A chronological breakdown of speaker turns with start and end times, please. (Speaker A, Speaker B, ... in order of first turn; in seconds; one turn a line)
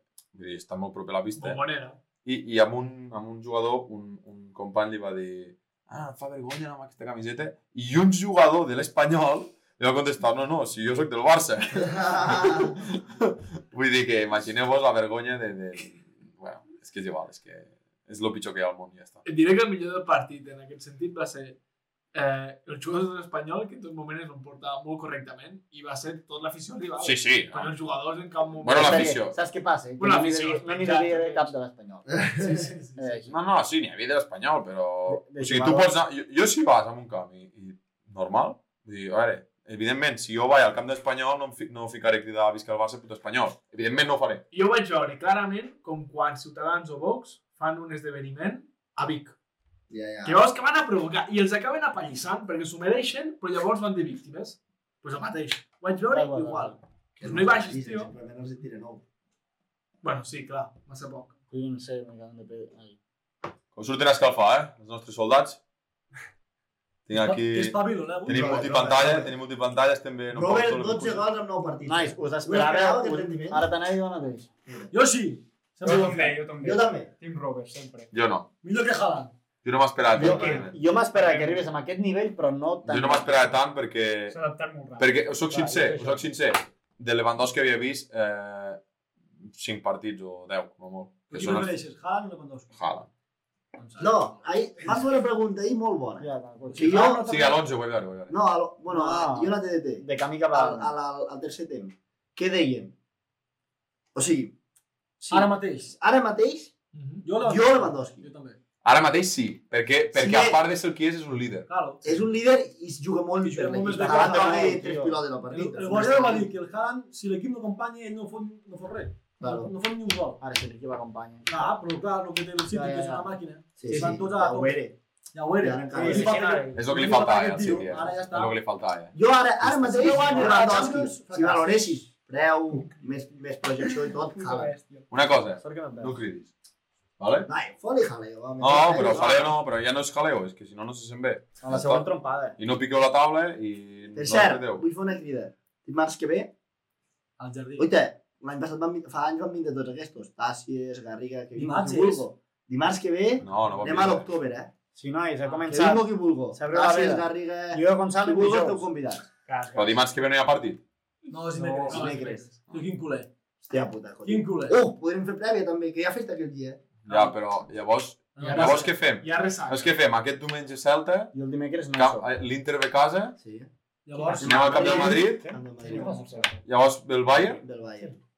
Speaker A: 0.3-1.6
Speaker B: 1.4-2.0
Speaker A: 2.2-19.2
Speaker C: 12.0-12.7
Speaker B: 19.2-21.6
Speaker B: 22.1-29.3
Speaker A: 27.0-27.7
Speaker A: 28.6-29.4
Speaker D: 28.7-33.3
Speaker B: 30.0-31.5
Speaker B: 32.4-33.2
Speaker A: 33.3-44.4
Speaker D: 35.1-35.9
Speaker B: 44.5-49.3
Speaker C: 49.9-50.4
Speaker B: 50.2-58.1
Speaker D: 56.1-56.8
Speaker C: 57.2-59.0
Speaker B: 60.0-61.3
Speaker D: 61.5-63.0
Speaker A: 63.7-65.6
Speaker A: 67.1-71.2
Speaker E: 67.1-69.0
Speaker C: 68.3-69.3
Speaker C: 70.3-73.6
Speaker D: 71.8-74.5
Speaker C: 74.7-74.9
Speaker E: 74.9-76.5
Speaker F: 75.8-78.1
Speaker C: 76.6-77.1
Speaker A: 78.1-78.5
Speaker E: 78.6-79.3
Speaker A: 79.6-80.8
Speaker F: 80.1-81.6
Speaker D: 80.1-83.5
Speaker A: 82.8-84.3
Speaker F: 84.3-85.2
Speaker A: 85.0-88.8
Speaker D: 85.5-86.2
Speaker A: 89.4-91.8
Speaker E: 91.3-92.7
Speaker A: 92.8-93.1
Speaker E: 93.8-94.9
Speaker C: 94.0-97.5
Speaker D: 96.2-97.1
Speaker E: 96.6-97.5
Speaker A: 97.3-98.3
Speaker C: 98.3-102.9
Speaker D: 98.9-100.9
Speaker C: 104.1-104.5
Speaker C: 105.2-106.7
Speaker E: 105.3-105.9
Speaker B: 106.9-107.2
Speaker E: 107.2-108.6
Speaker C: 107.4-108.2
Speaker A: 108.8-111.7
Speaker C: 110.1-110.6
Speaker E: 111.7-112.0
Speaker C: 112.0-116.5
Speaker E: 113.4-114.8
Speaker D: 113.9-115.2
Speaker E: 115.5-120.4
Speaker C: 119.4-119.7
Speaker D: 120.4-121.5
Speaker E: 121.5-124.8
Speaker C: 122.7-125.0
Speaker E: 125.3-128.6
Speaker C: 125.6-126.4
Speaker D: 125.9-126.8
Speaker A: 126.7-130.8
Speaker C: 129.1-134.7
Speaker E: 129.9-132.0
Speaker F: 132.8-133.2
Speaker F: 133.8-135.1
Speaker A: 135.1-136.5
Speaker D: 135.6-136.2
Speaker A: 137.2-137.5
Speaker C: 137.5-139.5
Speaker A: 138.6-144.8
Speaker D: 141.6-142.6
Speaker C: 144.1-146.5
Speaker E: 147.4-147.9
Speaker C: 147.8-154.7
Speaker E: 151.6-152.2
Speaker A: 153.4-154.2
Speaker D: 154.9-158.9
Speaker C: 155.7-159.2
Speaker F: 159.4-160.0
Speaker A: 159.7-160.8
Speaker E: 161.3-163.3
Speaker F: 161.6-162.2
Speaker B: 161.8-162.5
Speaker C: 161.8-162.4
Speaker C: 163.6-166.8
Speaker E: 164.2-164.8
Speaker A: 167.1-171.3
Speaker E: 168.3-168.9
Speaker B: 168.4-169.9
Speaker D: 171.3-172.3
Speaker A: 171.9-173.4
Speaker C: 173.4-173.7
Speaker E: 174.1-175.2
Speaker C: 174.4-176.2
Speaker A: 174.4-175.5
Speaker D: 175.1-176.5
Speaker F: 175.8-176.6
Speaker A: 176.6-177.6
Speaker C: 177.6-178.2